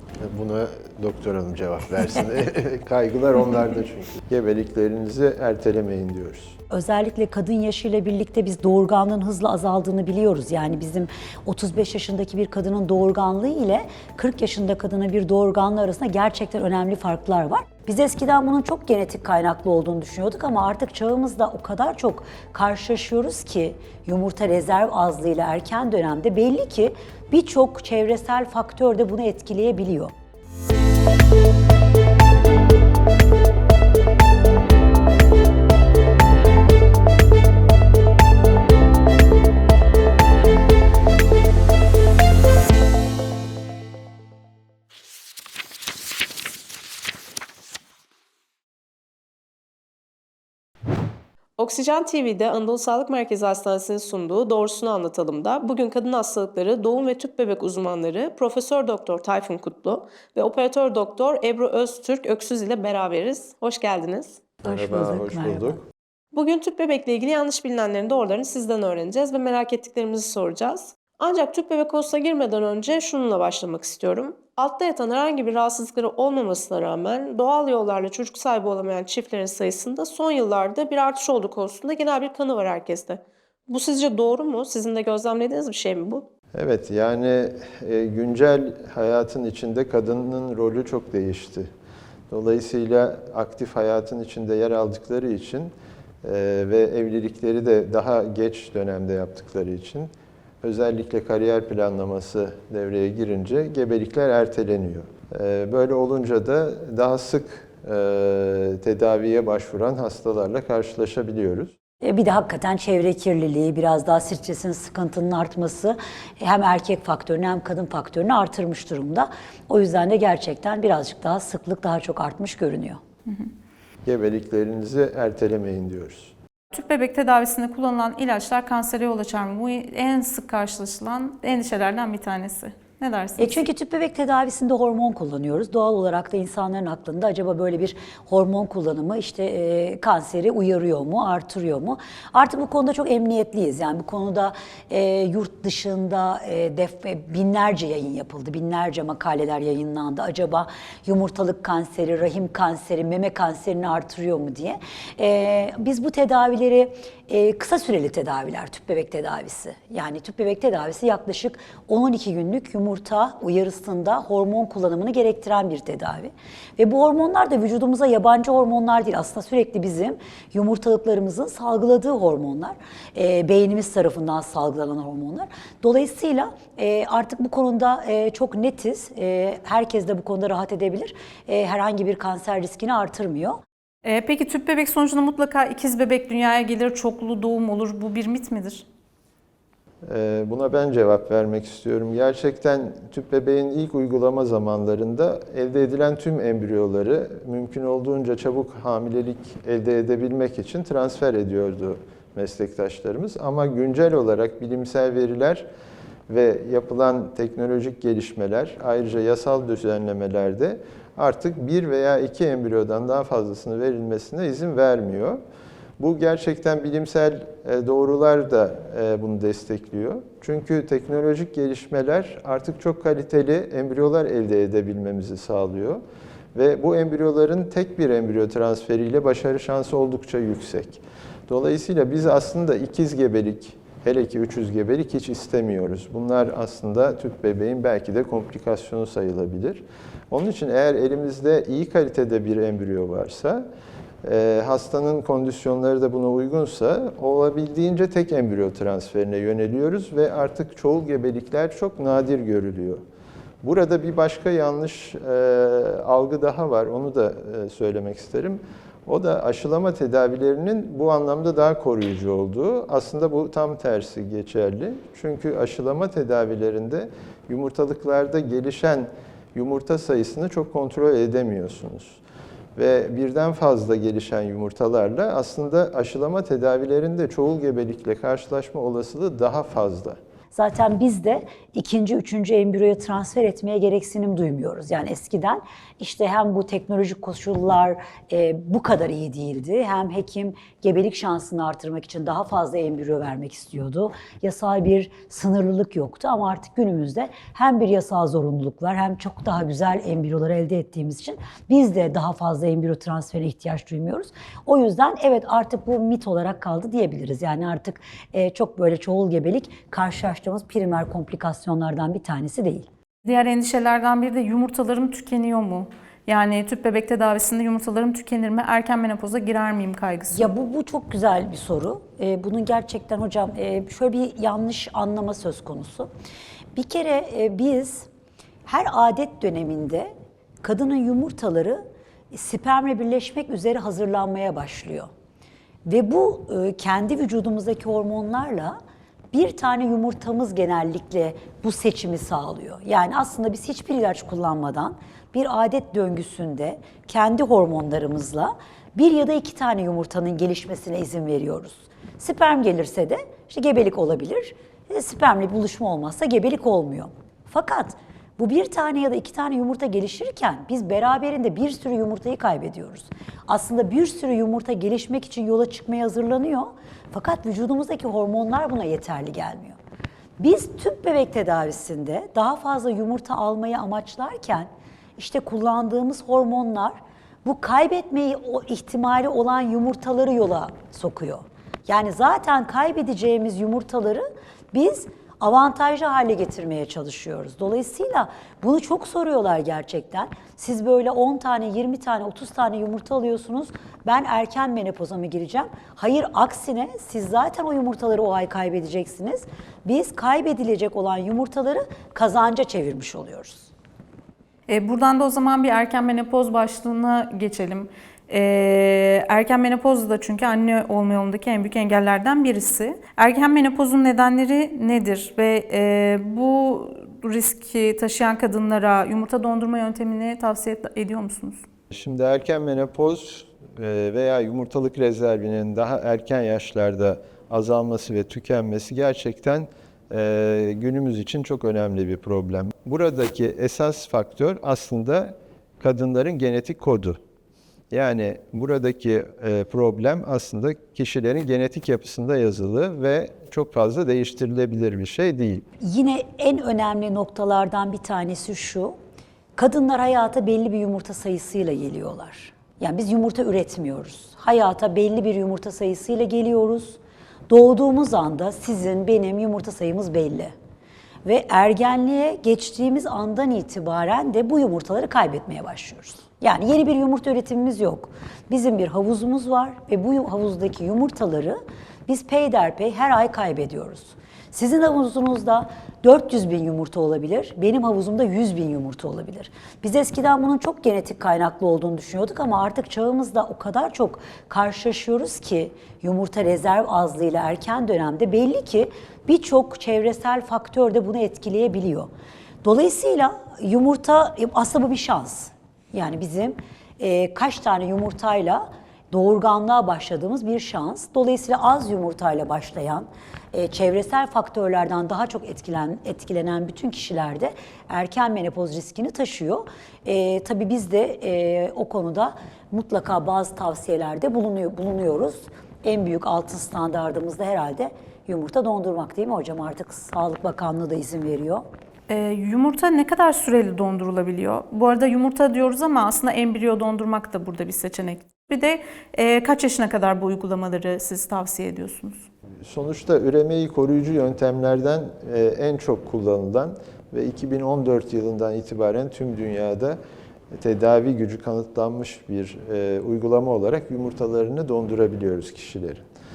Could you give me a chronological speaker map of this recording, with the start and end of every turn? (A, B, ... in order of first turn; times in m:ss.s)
0:00.2-0:06.6 A
0:06.7-0:30.1 B
0:51.6-1:04.4 C
1:04.6-1:05.8 B
1:04.6-1:05.8 A
1:06.3-1:26.2 C
1:26.5-1:31.7 A
1:32.3-1:40.1 A
1:40.6-1:51.7 A
1:52.0-2:03.0 B
2:04.0-2:06.3 A
2:06.7-2:13.6 D
2:13.4-3:03.6 B
3:04.0-3:08.8 D
3:10.0-3:25.7 A
3:26.3-3:35.4 A
3:36.0-3:46.0 A
3:46.5-4:03.6 A
4:04.2-4:13.0 A
4:13.6-4:32.2 A
4:32.8-4:40.2 A
4:40.5-5:12.9 B
5:13.2-5:20.5 D
5:20.3-5:26.1 B
5:26.7-5:28.1 B
5:28.6-5:30.1 B
5:30.6-5:35.1 B
5:35.8-5:38.8 B
5:39.3-6:09.8 B
6:10.4-6:43.7 B
6:44.7-7:01.6 D
7:01.9-7:17.2 A
7:17.9-7:25.6 A
7:25.8-7:29.0 B
7:29.6-7:40.5 B
7:41.2-8:12.1 B
8:12.6-8:41.6 B
8:42.1-8:52.3 D
8:52.6-9:00.0 A
9:00.5-9:06.0 A